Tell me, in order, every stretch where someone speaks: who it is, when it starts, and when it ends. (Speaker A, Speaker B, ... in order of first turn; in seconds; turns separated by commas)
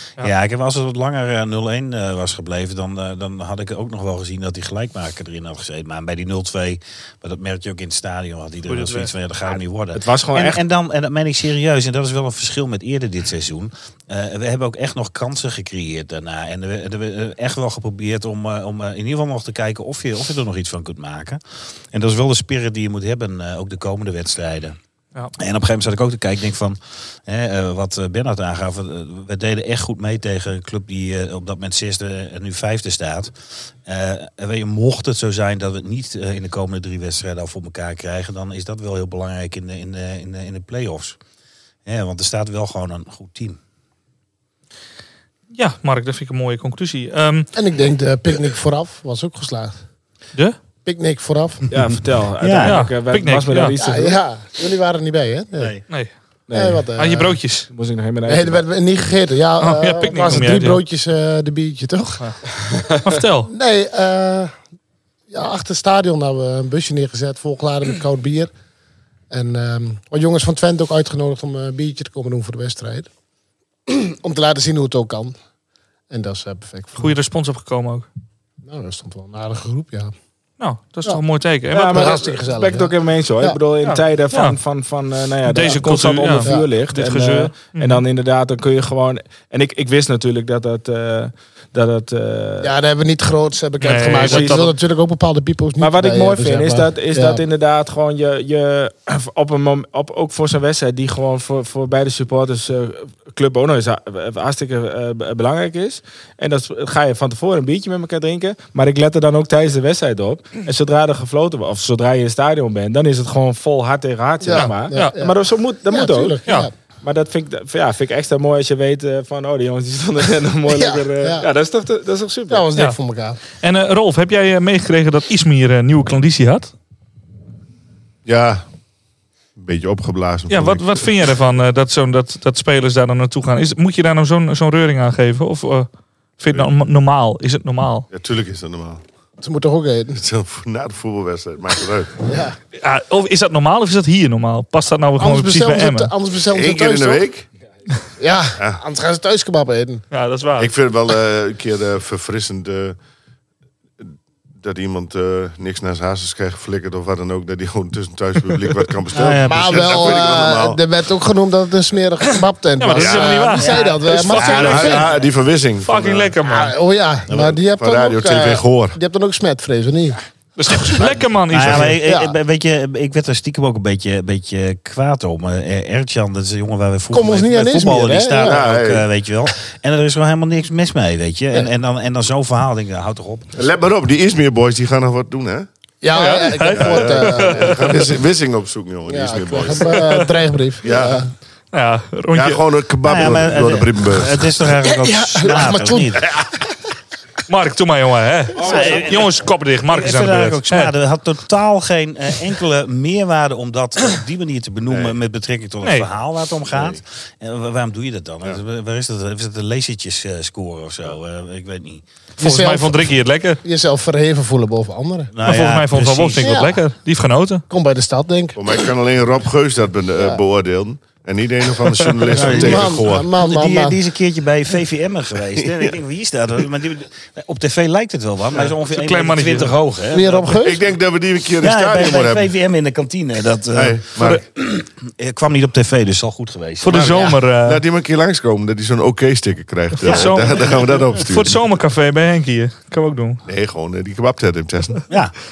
Speaker A: 0.2-24.8, Speaker B: 9.9-10.6, Speaker A: 25.4-41.2, Speaker A: 41.9-43.6, Speaker C: 45.5-47.5, Speaker D: 47.5-49.8, Speaker D: 50.9-51.7, Speaker B: 51.7-54.2, Speaker A: 51.9-52.8, Speaker C: 52.7-53.7, Speaker D: 53.8-55.8, Speaker A: 55.6-55.8, Speaker C: 55.9-56.1, Speaker B: 56.5-56.9, Speaker D: 56.5-57.4, Speaker C: 57.0-57.7, Speaker B: 57.7-58.6, Speaker D: 58.3-62.3, Speaker C: 59.6-60.8, Speaker C: 62.2-62.5, Speaker C: 63.0-63.5, Speaker D: 63.5-64.5, Speaker D: 65.3-68.5, Speaker D: 69.3-73.1, Speaker D: 73.9-75.3, Speaker D: 76.1-77.2, Speaker C: 77.0-78.1, Speaker D: 78.7-80.1, Speaker C: 80.6-82.2, Speaker B: 81.7-92.7, Speaker D: 81.8-83.6, Speaker C: 83.8-84.6, Speaker C: 85.5-88.0, Speaker D: 92.6-97.4, Speaker C: 93.8-94.7, Speaker B: 94.2-94.7, Speaker B: 95.8-116.4, Speaker D: 114.4-116.7, Speaker C: 114.5-115.1, Speaker B: 117.0-122.6, Speaker D: 120.7-121.5, Speaker D: 122.5-123.4, Speaker C: 123.6-126.7, Speaker E: 128.2-128.7, Speaker E: 129.6-131.2, Speaker C: 130.5-138.1, Speaker E: 138.1-139.0, Speaker D: 139.4-140.2, Speaker E: 140.2-142.2, Speaker D: 142.3-142.6, Speaker C: 142.8-146.1, Speaker D: 145.2-147.3, Speaker E: 146.5-147.5, Speaker D: 148.2-150.1, Speaker C: 150.1-150.7, Speaker E: 150.6-153.0, Speaker E: 154.0-160.8, Speaker A: 159.1-160.2, Speaker D: 159.5-165.1, Speaker C: 162.8-165.1, Speaker E: 162.9-163.8, Speaker E: 164.3-166.3, Speaker A: 164.6-164.9, Speaker C: 165.8-166.8, Speaker D: 166.4-170.2, Speaker E: 167.4-169.0, Speaker C: 170.6-171.9, Speaker D: 170.8-171.1, Speaker A: 171.5-183.6, Speaker E: 171.6-172.0, Speaker D: 171.8-172.4, Speaker D: 177.1-178.7, Speaker E: 178.4-179.1, Speaker E: 183.6-185.7, Speaker D: 186.0-188.2, Speaker C: 186.1-188.0, Speaker E: 186.7-190.0, Speaker D: 189.1-191.3, Speaker C: 189.9-190.3, Speaker E: 190.8-191.3, Speaker C: 191.7-192.6, Speaker E: 192.3-194.6, Speaker A: 193.0-196.3, Speaker D: 194.8-196.6, Speaker C: 197.5-200.9, Speaker A: 198.6-212.0, Speaker E: 204.9-205.2, Speaker C: 205.8-206.1, Speaker E: 206.7-207.0, Speaker D: 212.4-213.1, Speaker C: 212.4-213.6, Speaker D: 213.6-215.3, Speaker A: 215.3-216.6, Speaker C: 215.4-217.7, Speaker D: 216.4-216.7, Speaker D: 217.7-218.6, Speaker E: 218.6-223.3, Speaker A: 222.4-230.6, Speaker D: 222.4-224.0, Speaker E: 225.6-225.9, Speaker C: 228.9-229.8, Speaker D: 230.1-230.8, Speaker E: 230.6-232.5, Speaker A: 231.6-237.4, Speaker E: 233.7-234.4, Speaker C: 236.8-237.8, Speaker E: 236.9-241.7, Speaker C: 240.0-243.4, Speaker E: 243.5-245.0